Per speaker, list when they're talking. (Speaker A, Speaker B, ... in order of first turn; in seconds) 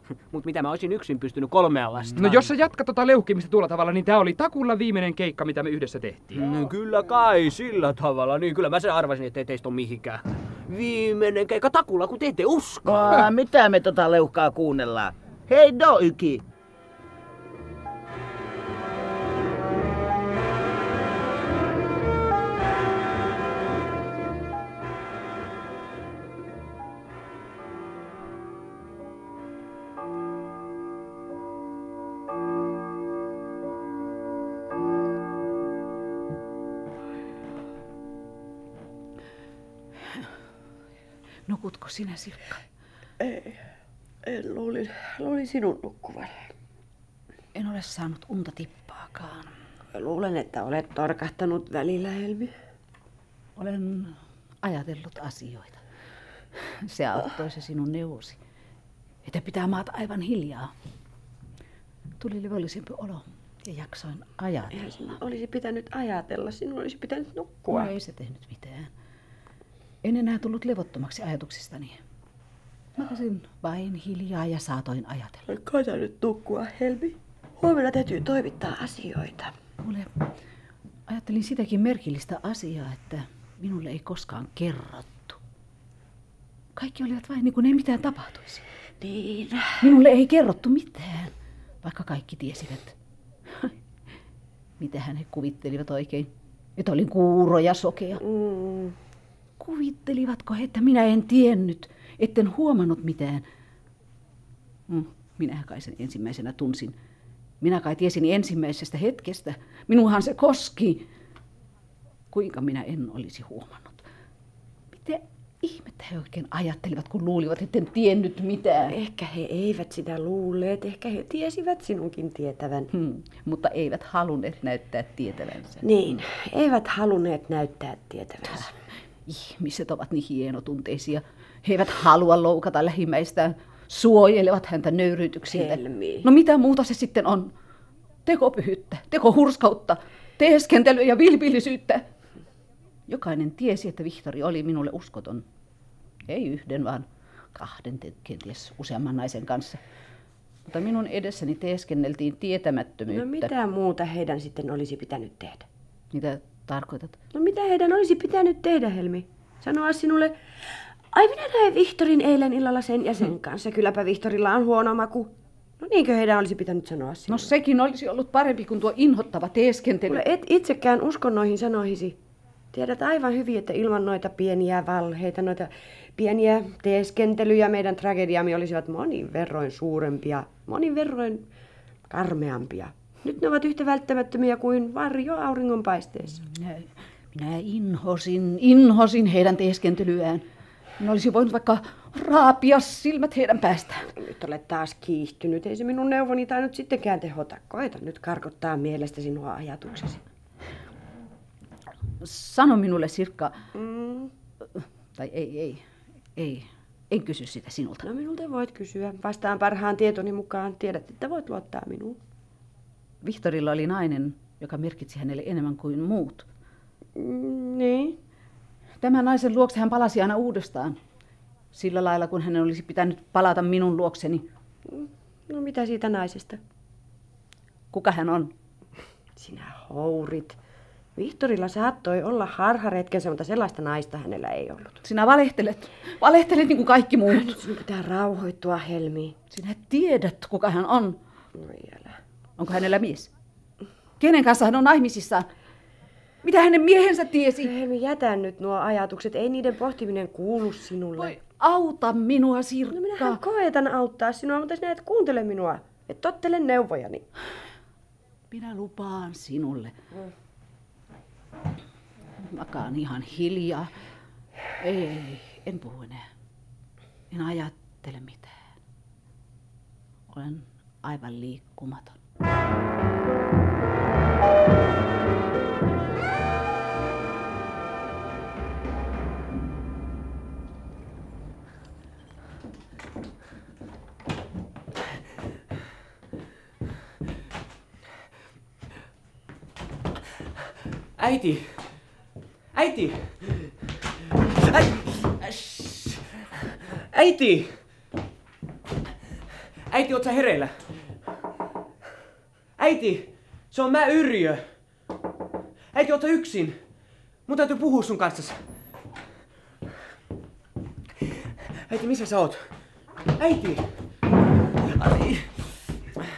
Speaker A: 0.3-2.5, 6.3-13.0, 291.2-292.1, 292.7-293.8, 294.7-296.4, 297.1-297.8, 299.9-300.9, 302.8-304.8, 305.9-306.8, 307.5-308.7, 311.9-312.8, 313.3-314.1, 314.9-315.6
Speaker B: 2.1-6.5
Speaker C: 12.9-16.4
Speaker D: 41.5-42.6, 47.5-49.5, 53.5-55.8, 56.7-58.4, 59.2-60.7, 62.2-65.2, 67.7-68.9, 70.0-72.0, 73.0-75.5, 79.8-80.1, 81.1-85.4, 86.8-88.6, 89.8-93.0, 94.8-98.2, 99.6-103.5, 104.9-106.9, 107.6-111.0, 112.3-114.0, 114.9-118.9, 122.9-125.9, 129.3-137.5, 138.2-142.1, 143.1-145.4, 146.3-149.8, 150.7-153.5, 156.1-157.2, 167.3-170.2, 186.4-190.4, 191.0-194.1, 202.2-203.5, 204.8-205.8, 206.3-208.1, 213.2-216.4, 219.0-221.0, 221.7-224.4, 227.9-228.5, 235.0-237.6, 239.5-241.2, 242.6-243.3, 244.2-245.5, 246.4-247.7, 251.2-253.4, 258.5-259.9, 262.4-263.9, 264.8-266.3, 267.3-268.6, 270.3-272.2
Speaker E: 43.2-43.6, 44.2-46.5, 49.9-52.5, 64.7-67.9, 75.5-79.5, 89.0-89.9, 98.2-99.0, 118.8-122.9, 125.8-128.7, 135.5-136.3, 153.1-155.7, 157.3-167.5, 170.1-172.2, 172.7-181.4, 182.1-186.4, 194.1-200.3, 203.7-204.3, 208.0-212.2, 217.2-218.2, 224.9-226.6, 229.4-230.6, 231.2-235.0, 237.3-239.3, 241.5-242.2, 247.6-251.3, 252.9-257.2